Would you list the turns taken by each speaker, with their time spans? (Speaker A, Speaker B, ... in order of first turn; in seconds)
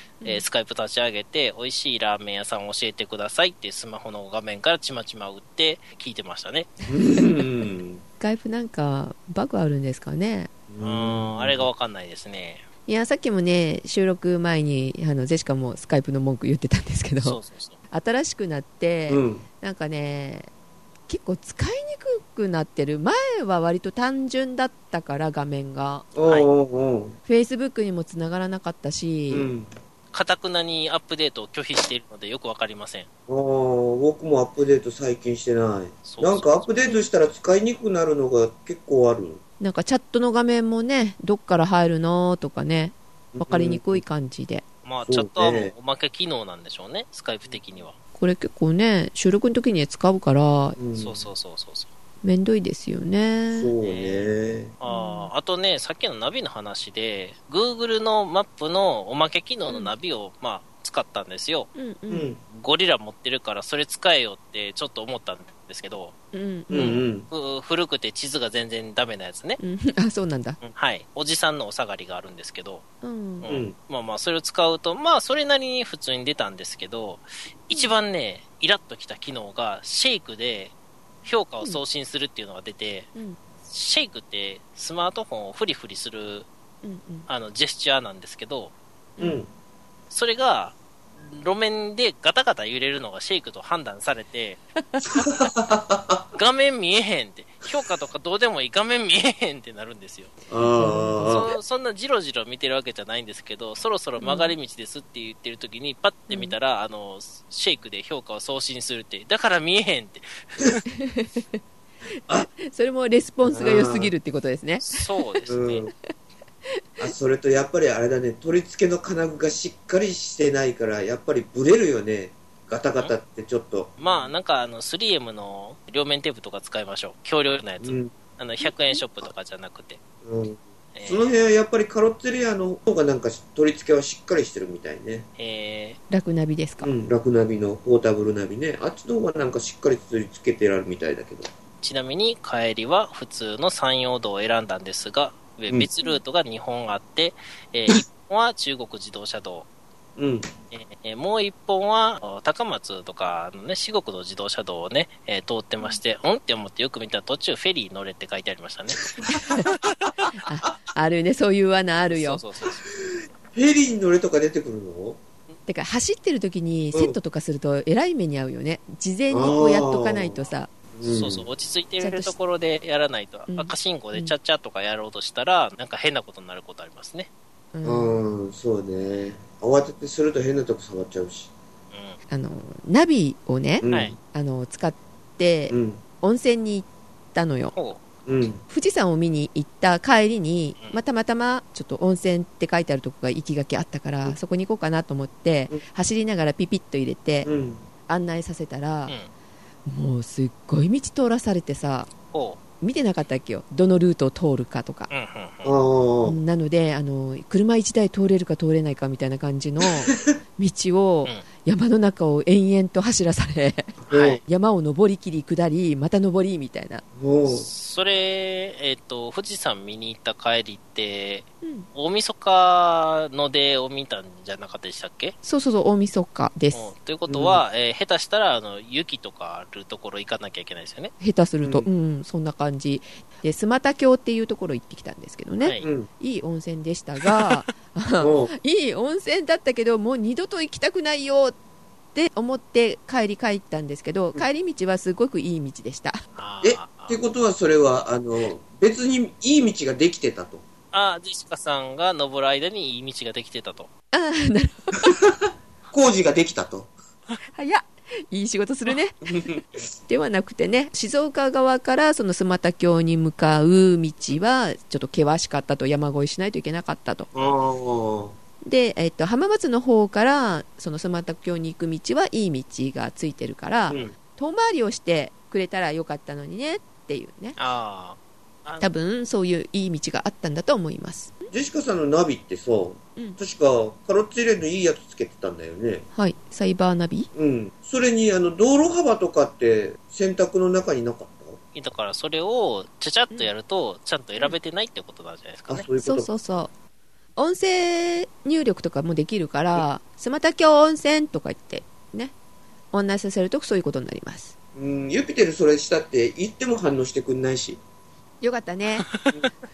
Speaker A: 0.2-6.7, 10.8-12.7, 17.2-17.8, 30.1-33.1, 36.0-36.7, 44.8-48.0, 51.0-51.9, 53.8-61.7, 62.5-66.1, 66.7-69.6, 70.6-72.8, 73.4-83.1, 83.7-86.5, 87.3-88.7, 90.1-94.6, 96.3-100.4, 101.3-110.8, 114.8-115.8, 124.0-130.0, 130.9-131.3, 135.4-136.0, 141.8-149.7, 150.7-159.1, 162.1-162.9, 171.0-177.3, 181.9-182.2, 187.7-188.0, 202.3-202.6, 205.1-205.8, 214.1-214.4, 217.5-225.4, 226.7-231.1, 235.6-235.9, 237.2-237.6, 246.4-247.2, 250.9-253.9, 277.6-278.9, 291.8-295.9, 309.1-309.4
Speaker B: 6.9-7.4, 8.2-10.5, 12.9-17.4, 17.9-20.5, 21.1-26.1, 27.3-29.5, 36.8-37.1, 39.6-44.6, 48.1-50.8, 52.2-53.7, 54.9-55.3, 61.8-62.3, 66.3-67.0, 69.6-70.6, 73.0-73.5, 86.8-87.3, 94.8-95.3, 100.7-101.5, 104.2-104.5, 106.3-106.6, 110.9-111.6, 112.2-115.5, 128.6-129.0, 136.1-136.9, 159.3-159.7, 160.4-162.4, 165.7-170.7, 172.0-172.3, 173.5-174.3, 177.7-178.2, 182.3-187.7, 188.7-197.5, 198.1-199.1, 199.9-202.1, 202.8-205.1, 206.2-213.9, 214.5-217.0, 221.6-221.9, 225.4-226.9, 231.2-241.6, 242.2-246.2, 254.1-255.1, 257.6-259.2, 260.1-267.3, 268.6-277.6, 278.8-281.5, 286.1-287.3, 296.0-296.7, 297.4-302.3, 302.9-304.5, 308.4-309.1
Speaker C: 6.9-8.0, 10.7-11.7, 19.1-19.4, 26.1-27.2, 29.3-29.7, 33.3-39.4, 43.3-44.0, 45.1-45.7, 50.8-51.3, 53.5-54.7, 62.1-62.4, 66.7-67.3, 73.5-73.7, 89.2-89.5, 95.2-96.2, 100.5-101.5, 113.5-114.1, 115.5-115.9, 117.0-124.0, 127.8-128.1, 130.2-135.3, 136.8-141.5, 150.2-150.5, 159.2-159.7, 163.5-165.2, 169.3-170.4, 170.9-171.5, 177.8-181.5, 183.8-184.2, 185.7-186.0, 188.3-188.6, 197.4-197.8, 205.6-206.4, 214.1-214.4, 217.2-217.7, 227.3-227.6, 235.8-236.1, 238.2-238.5, 246.6-250.6, 255.1-256.9, 259.2-259.7, 267.4-268.4, 281.5-286.1, 287.3-291.6, 295.7-296.3, 304.8-307.8